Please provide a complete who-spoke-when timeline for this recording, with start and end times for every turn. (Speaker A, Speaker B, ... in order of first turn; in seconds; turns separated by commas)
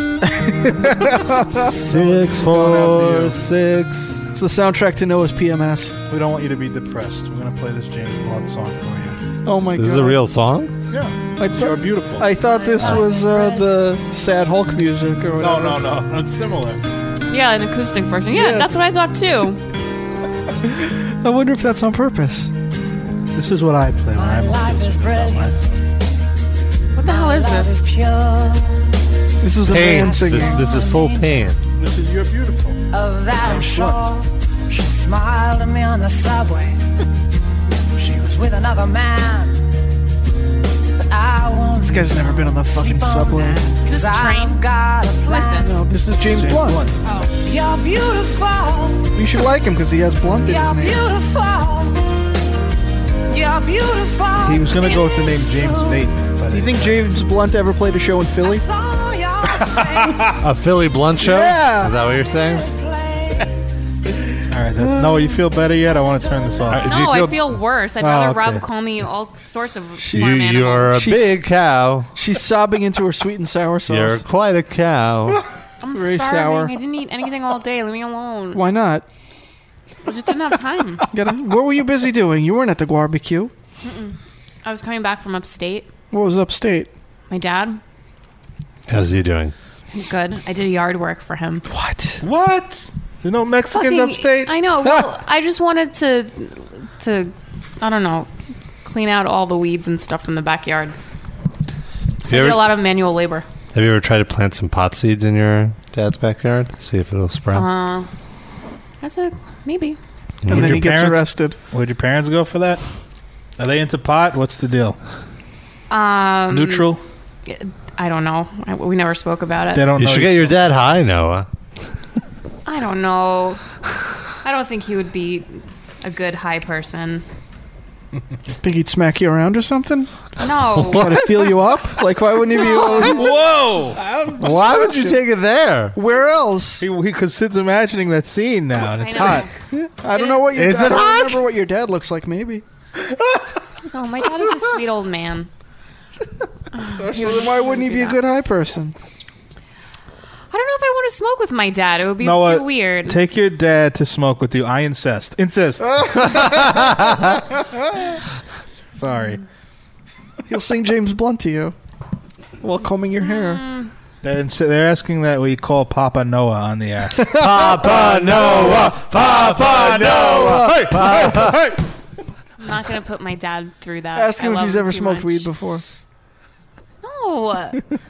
Speaker A: 0.2-1.8, Speaker B: 1.5-4.3, Speaker C: 1.7-3.5, Speaker A: 4.3-6.0, Speaker C: 6.1-9.2, Speaker A: 9.4-10.2, Speaker B: 9.8-10.7, Speaker C: 10.9-12.3, Speaker A: 11.4-15.8, Speaker D: 12.4-13.6, Speaker C: 15.4-16.8, Speaker E: 17.3-19.6, Speaker A: 18.3-18.7, Speaker A: 20.6-22.5, Speaker C: 23.4-25.9, Speaker D: 24.1-25.5, Speaker E: 26.9-27.8, Speaker D: 27.0-28.9, Speaker A: 29.4-30.8, Speaker B: 29.6-31.6, Speaker D: 29.7-31.5, Speaker C: 31.8-32.8, Speaker D: 32.9-36.8, Speaker C: 33.4-34.0, Speaker D: 37.8-39.8, Speaker D: 41.0-45.8, Speaker A: 41.8-43.8, Speaker E: 43.9-44.6, Speaker E: 45.3-45.8, Speaker A: 45.6-46.9, Speaker C: 46.2-47.0, Speaker E: 47.0-47.3, Speaker D: 47.4-49.4, Speaker A: 49.2-51.0, Speaker D: 50.5-52.0, Speaker D: 53.3-56.1, Speaker C: 54.4-57.1, Speaker A: 56.5-58.6, Speaker D: 58.4-60.4, Speaker C: 59.7-60.4, Speaker B: 60.4-62.7, Speaker A: 61.2-62.0, Speaker D: 62.0-63.5, Speaker C: 64.5-67.0, Speaker A: 64.8-65.2, Speaker D: 66.3-66.6, Speaker B: 66.7-67.4, Speaker E: 66.8-71.0, Speaker C: 68.0-68.6, Speaker A: 70.0-71.4, Speaker B: 70.1-72.1, Speaker A: 72.2-74.2, Speaker B: 73.9-75.4, Speaker E: 75.8-78.6, Speaker A: 75.9-76.7, Speaker A: 78.5-79.0, Speaker E: 80.0-81.0, Speaker A: 81.1-83.5, Speaker E: 83.8-85.9, Speaker A: 86.1-86.9, Speaker E: 87.3-87.8, Speaker B: 88.9-89.5, Speaker E: 89.9-91.7, Speaker A: 91.7-92.2, Speaker C: 92.2-94.5, Speaker E: 93.5-98.3, Speaker E: 98.8-101.0, Speaker E: 102.2-103.5, Speaker B: 102.3-102.7, Speaker B: 103.7-107.7, Speaker E: 107.5-108.1, Speaker E: 109.0-110.0, Speaker B: 110.4-110.8, Speaker C: 110.5-112.8, Speaker A: 110.5-111.6, Speaker C: 113.6-115.0, Speaker E: 115.9-116.9, Speaker C: 116.5-117.0, Speaker E: 117.5-119.9, Speaker C: 119.7-120.6, Speaker B: 120.0-121.5, Speaker E: 122.7-123.6, Speaker E: 124.4-127.2, Speaker A: 128.6-130.1, Speaker E: 130.4-131.2, Speaker A: 130.8-133.4, Speaker E: 132.6-133.3, Speaker C: 132.6-134.0, Speaker A: 133.9-135.2, Speaker B: 134.4-135.9, Speaker A: 135.9-136.8, Speaker C: 136.8-139.5, Speaker E: 138.9-140.5, Speaker A: 139.7-142.6, Speaker B: 140.5-141.4, Speaker E: 143.9-145.5, Speaker E: 146.8-148.2, Speaker A: 146.9-148.9, Speaker E: 150.5-153.2, Speaker C: 152.2-156.5, Speaker A: 155.9-158.2, Speaker C: 158.9-159.4, Speaker A: 160.5-161.8, Speaker A: 162.6-163.7, Speaker E: 163.2-163.9, Speaker C: 164.2-171.8, Speaker B: 167.2-171.6, Speaker A: 167.8-168.4, Speaker E: 172.6-175.5, Speaker A: 174.2-175.8, Speaker E: 177.0-177.8